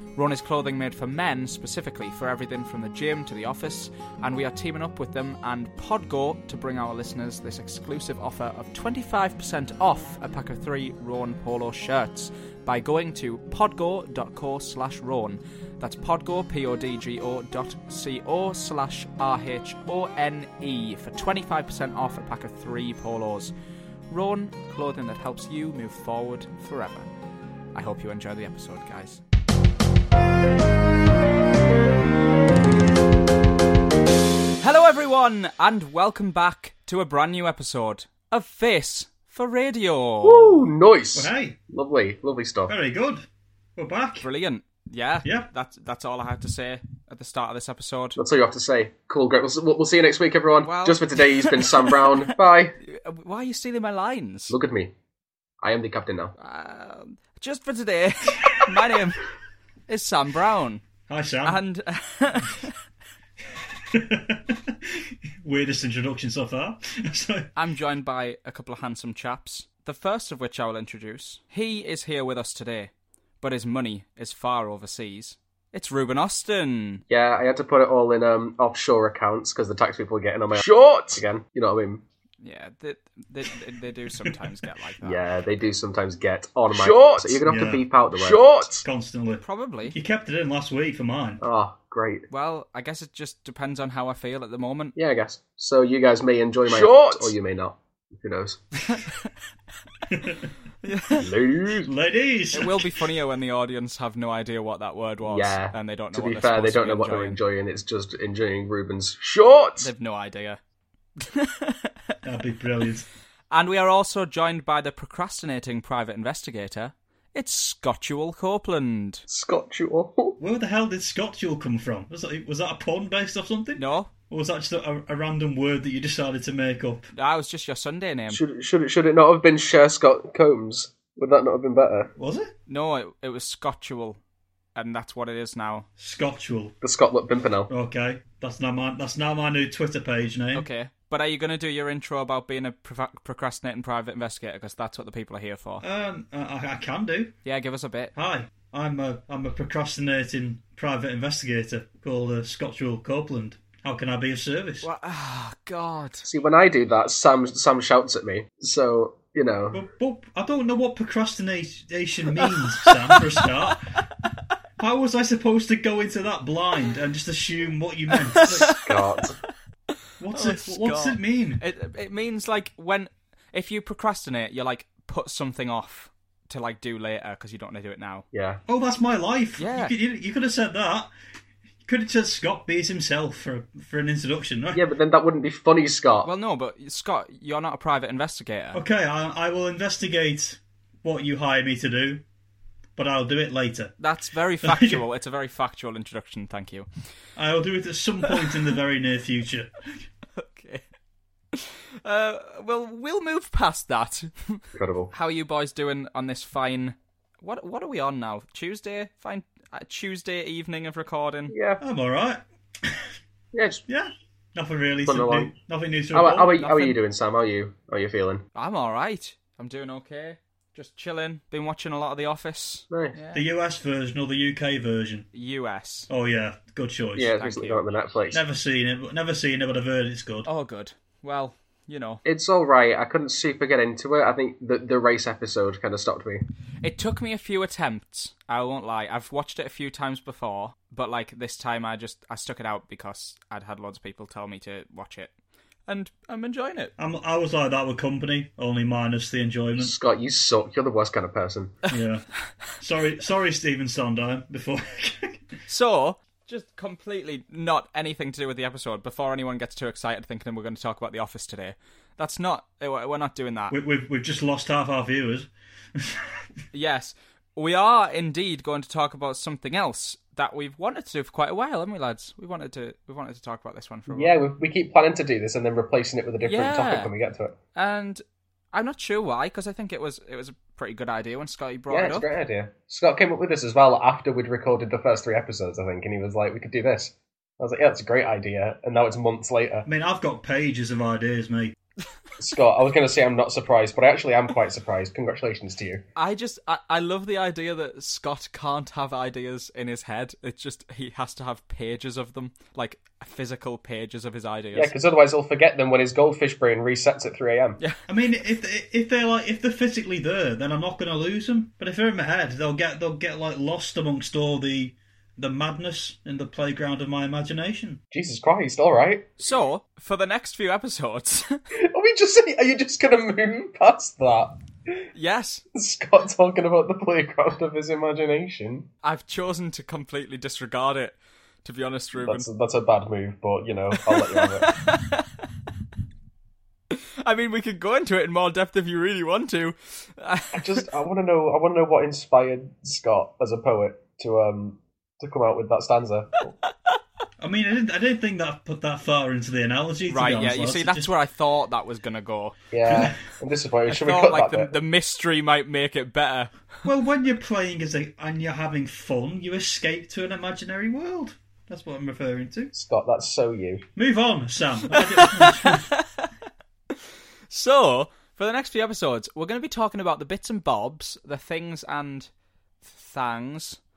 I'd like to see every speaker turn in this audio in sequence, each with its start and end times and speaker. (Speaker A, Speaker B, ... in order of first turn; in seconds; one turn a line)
Speaker A: 0.2-23.5
Speaker A: 24.1-27.1
Speaker A: 27.7-29.2
Speaker A: 34.6-40.7
Speaker B: 40.2-42.7
Speaker C: 41.1-41.6
Speaker C: 42.7-43.3
Speaker C: 43.8-44.3
Speaker A: 44.2-48.2
Speaker B: 48.2-52.8
Speaker A: 50.6-54.6
Speaker B: 54.5-54.9
Speaker B: 55.6-56.3
Speaker A: 56.4-59.2
Speaker A: 59.9-60.8
Speaker C: 61.1-61.6
Speaker A: 61.4-62.8
Speaker C: 63.9-67.5
Speaker A: 67.5-77.0
Speaker B: 77.1-82.0
Speaker A: 82.4-85.5
Speaker B: 85.0-88.8
Speaker C: 87.3-91.4
Speaker A: 89.4-90.0
Speaker B: 91.4-92.3
Speaker A: 92.3-95.0
Speaker B: 95.0-98.9
Speaker C: 96.8-97.1
Speaker A: 98.9-99.2
Speaker C: 100.1-100.5
Speaker A: 100.8-101.3
Speaker B: 101.2-101.9
Speaker C: 101.8-103.0
Speaker A: 102.5-107.4
Speaker B: 105.2-109.9
Speaker A: 109.8-110.6
Speaker A: 111.2-112.2
Speaker C: 112.2-113.1
Speaker A: 113.5-119.3
Speaker B: 119.3-120.4
Speaker C: 120.4-127.1
Speaker A: 123.8-124.1
Speaker A: 127.1-128.4
Speaker B: 128.3-132.1
Speaker C: 132.2-132.5
Speaker A: 132.7-134.2
Speaker A: 134.8-135.9
Speaker C: 136.0-136.7
Speaker B: 136.8-137.7
Speaker C: 137.7-140.7
Speaker A: 140.6-145.8
Speaker C: 145.8-147.3
Speaker A: 147.4-148.1
Speaker C: 148.2-154.9
Speaker A: 154.8-156.3
Speaker B: 156.2-159.8
Speaker C: 159.7-164.0
Speaker A: 162.4-163.5
Speaker C: 164.8-168.8
Speaker A: 168.3-168.9
Speaker B: 168.8-169.4
Speaker C: 170.2-171.6
Speaker A: 170.3-178.2
Speaker B: 178.3-178.6
Speaker C: 178.7-181.1
Speaker A: 179.6-179.9
Speaker C: 181.9-184.8
Speaker B: 184.7-186.3
Speaker A: 186.2-188.8
Speaker C: 188.7-192.2
Speaker C: 193.0-193.9
Speaker A: 194.0-196.9
Speaker C: 194.6-195.0
Speaker C: 197.4-199.8
Speaker A: 200.4-200.8
Speaker A: 201.5-211.6
Speaker B: 204.7-205.1
Speaker B: 211.5-211.8
Speaker C: 211.8-213.1
Speaker B: 213.5-213.8
Speaker C: 213.9-216.8
Speaker B: 215.1-215.5
Speaker B: 216.1-218.4
Speaker A: 216.6-216.9
Speaker A: 218.6-223.4
Speaker C: 223.3-225.3
Speaker A: 225.3-226.1
Speaker C: 226.1-227.3
Speaker B: 227.2-228.4
Speaker A: 227.4-227.8
Speaker C: 228.3-230.5
Speaker A: 230.4-232.2
Speaker B: 232.2-236.4
Speaker A: 236.8-245.3
Speaker A: 245.9-246.9
Speaker C: 247.0-249.9
Speaker B: 249.8-251.8
Speaker C: 251.9-252.3
Speaker C: 252.8-255.4
Speaker A: 255.7-263.7
Speaker C: 263.7-266.3
Speaker A: 266.7-274.4
Speaker B: 274.1-277.6
Speaker A: 276.4-277.1
Speaker A: 277.8-282.3
Speaker B: 281.9-289.9
Speaker C: 289.9-291.8
Speaker B: 292.4-296.0
Speaker A: 296.2-304.9
Speaker B: 304.7-307.8
Speaker C: 308.1-318.0
Speaker B: 318.1-319.3
Speaker A: 319.4-321.6
Speaker B: 321.8-324.6
Speaker A: 325.1-325.6
Speaker B: 325.7-328.9
Speaker A: 329.0-332.5
Speaker B: 332.2-334.7
Speaker A: 333.9-335.3
Speaker A: 336.9-340.8
Speaker B: 340.5-346.5
Speaker C: 347.4-351.1
Speaker A: 350.1-352.6
Speaker B: 352.7-354.7
Speaker C: 352.9-353.1
Speaker A: 353.9-356.5
Speaker C: 356.9-362.7
Speaker B: 362.7-363.8
Speaker C: 364.0-365.9
Speaker A: 364.9-366.3
Speaker A: 367.5-372.3
Speaker A: 372.8-373.8